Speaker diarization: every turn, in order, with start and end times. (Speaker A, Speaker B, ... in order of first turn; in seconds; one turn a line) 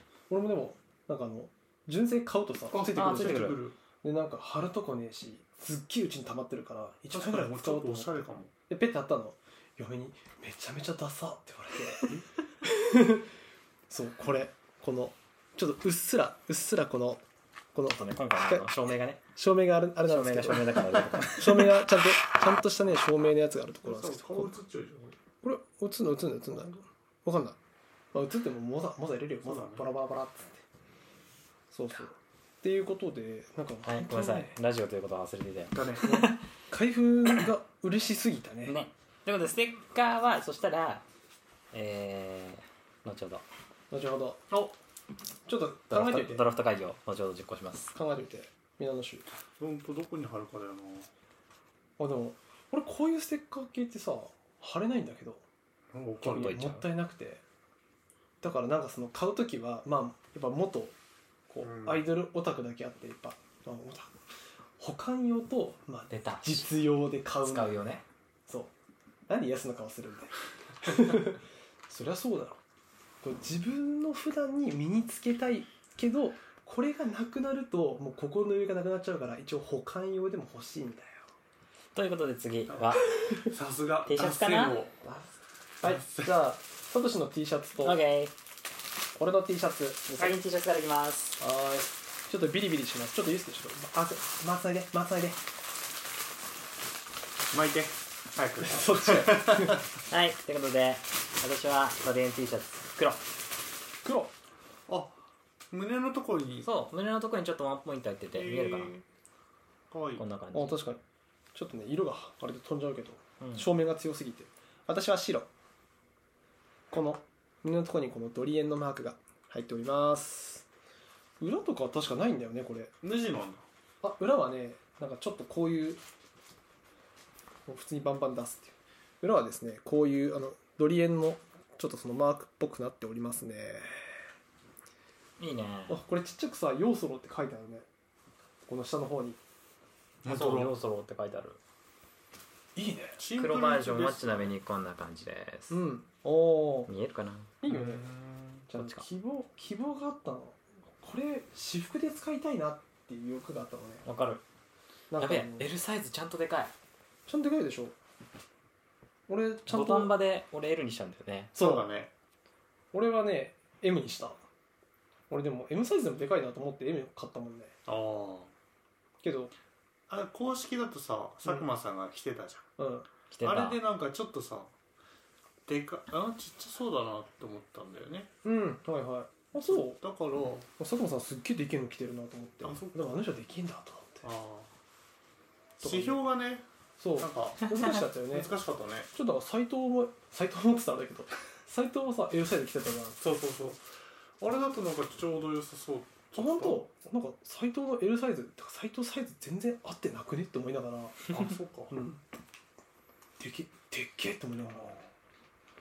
Speaker A: 0.3-13.3
Speaker B: 2.7-3.8
Speaker C: 3.0-3.6
Speaker B: 7.1-8.5
Speaker A: 13.9-17.2
Speaker A: 17.7-18.7
Speaker C: 17.9-19.2
Speaker A: 19.4-24.6
Speaker C: 20.1-21.9
Speaker B: 23.8-25.1
Speaker A: 25.4-27.6
Speaker A: 28.1-30.6
Speaker B: 29.4-29.9
Speaker A: 31.7-34.6
Speaker C: 33.9-36.4
Speaker B: 35.7-36.2
Speaker A: 36.0-38.8
Speaker C: 38.7-41.0
Speaker C: 41.7-43.5
Speaker A: 43.9-44.5
Speaker A: 45.5-46.5
Speaker C: 45.9-47.9
Speaker A: 47.9-49.3
Speaker B: 49.6-51.1
Speaker A: 52.0-55.4
Speaker B: 55.9-56.6
Speaker A: 56.2-57.4
Speaker C: 56.3-56.9
Speaker A: 58.4-61.0
Speaker A: 61.5-64.2
Speaker B: 61.6-62.1
Speaker A: 64.8-67.8
Speaker C: 66.1-66.7
Speaker C: 67.4-68.0
Speaker A: 69.3-72.6
Speaker A: 73.2-81.3
Speaker C: 82.0-83.5
Speaker B: 82.7-85.0
Speaker C: 84.1-84.8
Speaker A: 85.0-85.3
Speaker A: 85.8-88.0
Speaker B: 85.8-86.3
Speaker C: 87.8-88.3
Speaker A: 89.2-90.2
Speaker C: 90.1-91.4
Speaker A: 91.4-95.4
Speaker B: 97.5-99.9
Speaker A: 98.7-99.8
Speaker C: 100.1-103.2
Speaker A: 104.0-104.3
Speaker B: 104.9-105.2
Speaker B: 105.7-106.7
Speaker C: 106.6-108.9
Speaker B: 108.4-109.0
Speaker B: 109.9-110.2
Speaker C: 110.2-110.8
Speaker A: 110.5-111.0
Speaker A: 111.5-115.5
Speaker C: 113.4-113.7
Speaker A: 116.9-120.7
Speaker A: 121.4-122.9
Speaker B: 123.0-123.7
Speaker A: 124.0-126.0
Speaker A: 127.7-134.1
Speaker C: 135.4-136.0
Speaker A: 135.9-137.9
Speaker A: 138.7-139.4
Speaker B: 140.2-140.8
Speaker C: 140.3-141.6
Speaker A: 142.8-143.2
Speaker B: 143.2-144.5
Speaker C: 143.3-145.8
Speaker A: 145.7-146.9
Speaker C: 146.9-147.5
Speaker A: 147.6-148.1
Speaker B: 147.7-148.7
Speaker A: 148.7-154.1
Speaker C: 148.8-149.1
Speaker C: 154.1-154.4
Speaker A: 155.1-155.7
Speaker C: 155.2-156.7
Speaker A: 157.3-158.0
Speaker A: 159.3-160.1
Speaker C: 159.7-161.6
Speaker A: 161.6-161.8
Speaker B: 161.6-162.1
Speaker A: 162.9-164.4
Speaker A: 165.3-167.8
Speaker B: 167.9-168.5
Speaker A: 169.2-169.5
Speaker B: 170.1-172.7
Speaker A: 172.8-173.1
Speaker C: 173.3-173.8
Speaker B: 173.4-174.7
Speaker B: 175.7-178.3
Speaker A: 178.4-180.0
Speaker B: 179.6-180.7
Speaker A: 180.8-184.3
Speaker B: 182.6-183.3
Speaker B: 184.2-184.7
Speaker A: 185.8-186.2
Speaker B: 185.8-186.7
Speaker A: 187.0-188.5
Speaker B: 187.2-189.1
Speaker A: 189.1-193.2
Speaker B: 193.2-193.8
Speaker B: 194.4-196.8
Speaker A: 196.4-201.3
Speaker B: 201.3-202.0
Speaker A: 201.9-202.2
Speaker A: 203.4-205.0
Speaker B: 204.6-205.1